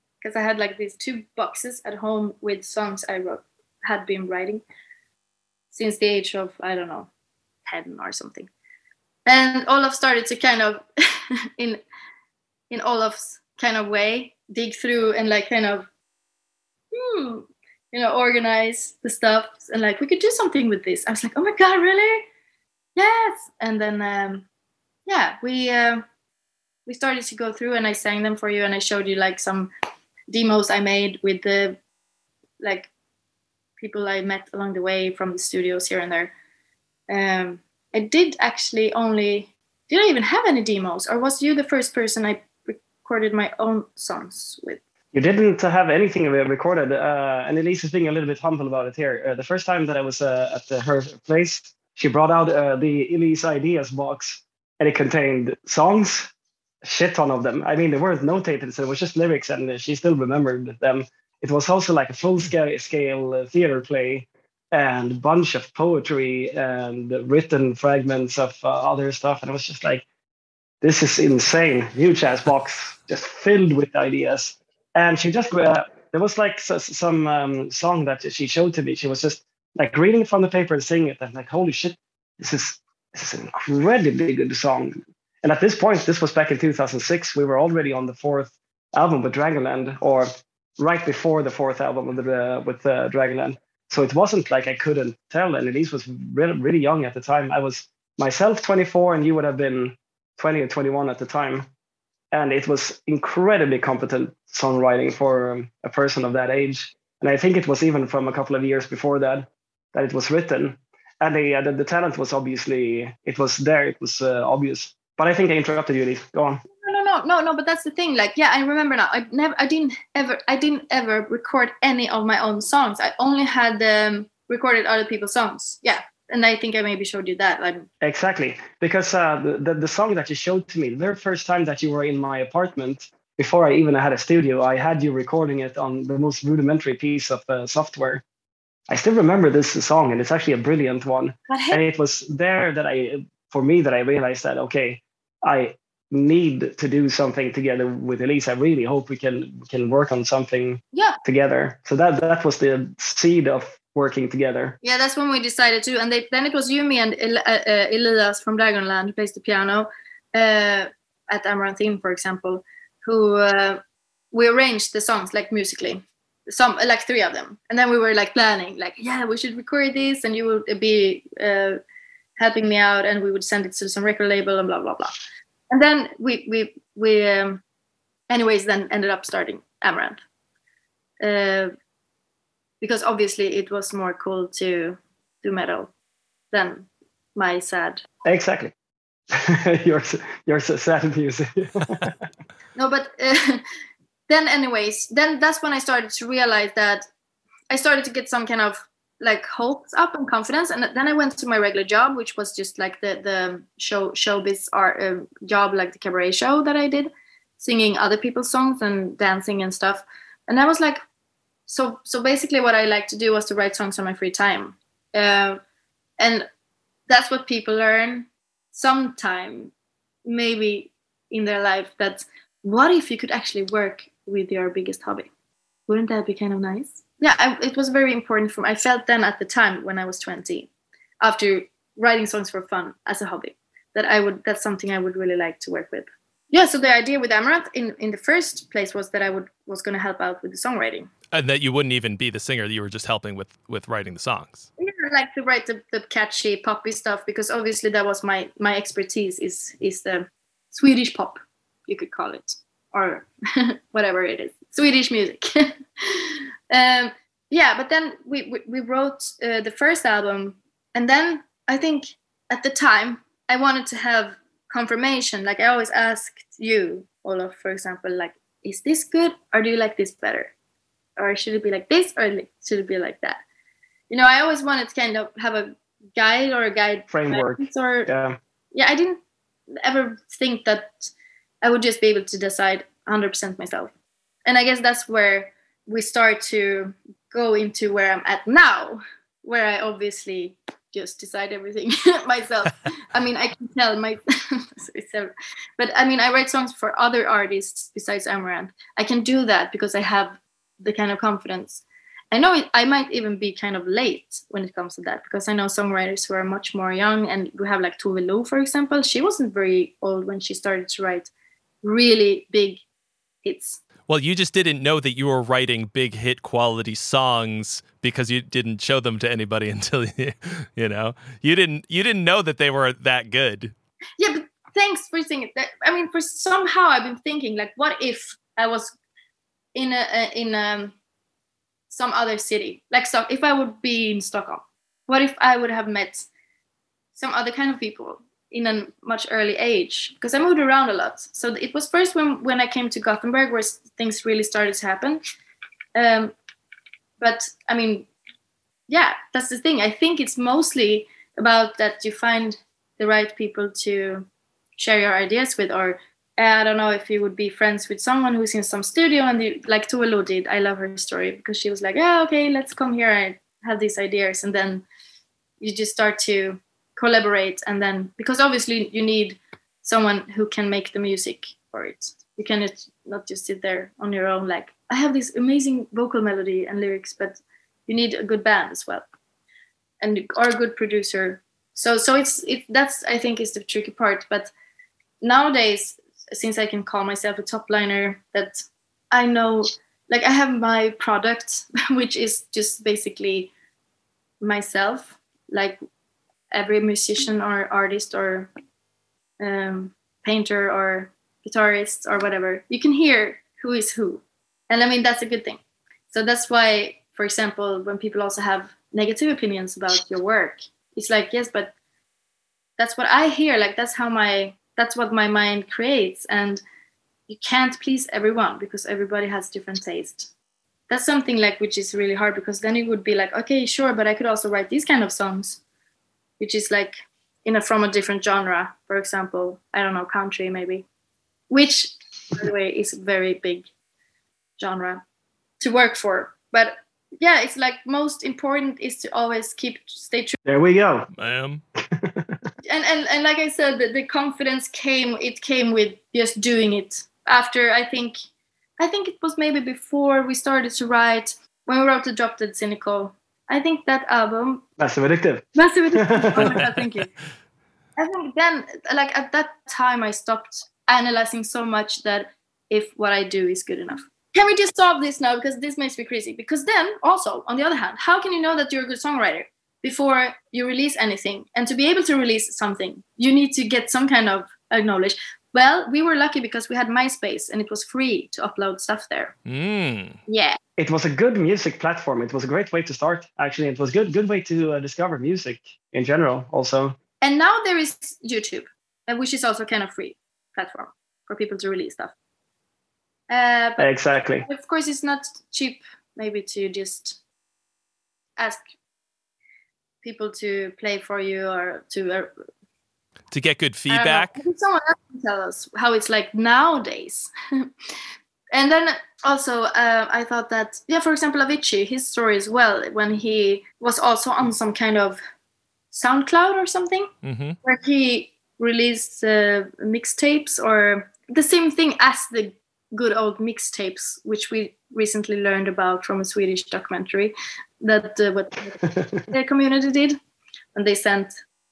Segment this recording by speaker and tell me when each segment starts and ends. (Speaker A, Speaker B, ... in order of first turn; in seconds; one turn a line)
Speaker A: 0.2-4.6
Speaker A: 5.7-7.1
Speaker A: 7.7-8.5
Speaker A: 9.3-11.8
Speaker A: 12.7-15.9
Speaker A: 16.9-22.3
Speaker A: 23.0-24.5
Speaker A: 25.1-26.1
Speaker A: 26.9-29.7
Speaker A: 30.3-31.8
Speaker A: 32.6-32.9
Speaker A: 33.8-36.3
Speaker A: 37.1-44.8
Speaker B: 45.1-56.3
Speaker B: 56.8-70.0
Speaker B: 70.8-101.7
Speaker B: 102.3-116.6
Speaker A: 116.8-127.9
Speaker B: 128.0-138.2
Speaker B: 138.9-154.8
Speaker A: 141.5-141.8
Speaker A: 150.9-151.2
Speaker A: 154.8-171.8
Speaker A: 172.4-175.2
Speaker A: 175.7-177.6
Speaker A: 178.3-180.2
Speaker A: 181.2-181.7
Speaker A: 182.8-185.9
Speaker A: 186.5-188.0
Speaker B: 188.2-188.7
Speaker B: 189.3-192.3
Speaker A: 192.8-193.6
Speaker A: 194.3-197.1
Speaker A: 197.7-211.0
Speaker A: 211.7-215.6
Speaker A: 216.2-216.5
Speaker A: 217.1-219.7
Speaker A: 220.3-225.3
Speaker A: 225.9-230.7
Speaker A: 231.2-241.1
Speaker C: 241.3-244.7
Speaker A: 244.8-270.5
Speaker A: 271.2-273.4
Speaker A: 274.1-278.1
Speaker B: 277.1-278.4
Speaker A: 278.7-279.2
Speaker A: 279.8-283.9
Speaker A: 284.5-311.3
Speaker A: 311.8-312.8
Speaker A: 313.4-313.8
Speaker C: 314.1-323.7
Speaker A: 324.2-328.9
Speaker A: 329.7-330.9
Speaker A: 331.9-336.3
Speaker A: 337.1-345.2
Speaker A: 345.9-346.3
Speaker A: 347.2-348.1
Speaker A: 348.9-364.9
Speaker A: 365.6-379.1
Speaker A: 380.0-384.5
Speaker A: 385.2-393.5
Speaker A: 394.4-395.8
Speaker A: 396.5-398.5
Speaker A: 399.4-405.6
Speaker A: 406.1-411.7
Speaker A: 412.8-416.6
Speaker A: 417.3-420.3
Speaker A: 420.9-425.6
Speaker A: 426.4-430.9
Speaker A: 431.5-433.7
Speaker A: 434.6-435.0
Speaker A: 435.6-440.4
Speaker B: 440.5-441.1
Speaker C: 441.2-441.6
Speaker B: 441.8-442.5
Speaker A: 442.6-448.2
Speaker A: 448.8-454.6
Speaker B: 454.8-456.6
Speaker A: 455.6-457.1
Speaker A: 458.0-479.4
Speaker C: 479.5-480.2
Speaker A: 480.3-480.6
Speaker B: 480.8-487.0
Speaker A: 487.2-492.1
Speaker A: 493.3-493.9
Speaker B: 493.8-494.5
Speaker A: 494.4-497.2
Speaker A: 498.4-498.6
Speaker A: 500.0-502.3
Speaker C: 503.3-504.3
Speaker A: 503.9-507.7
Speaker A: 508.5-515.2
Speaker A: 515.9-517.1
Speaker C: 517.2-517.6
Speaker A: 517.6-530.2
Speaker A: 530.8-531.4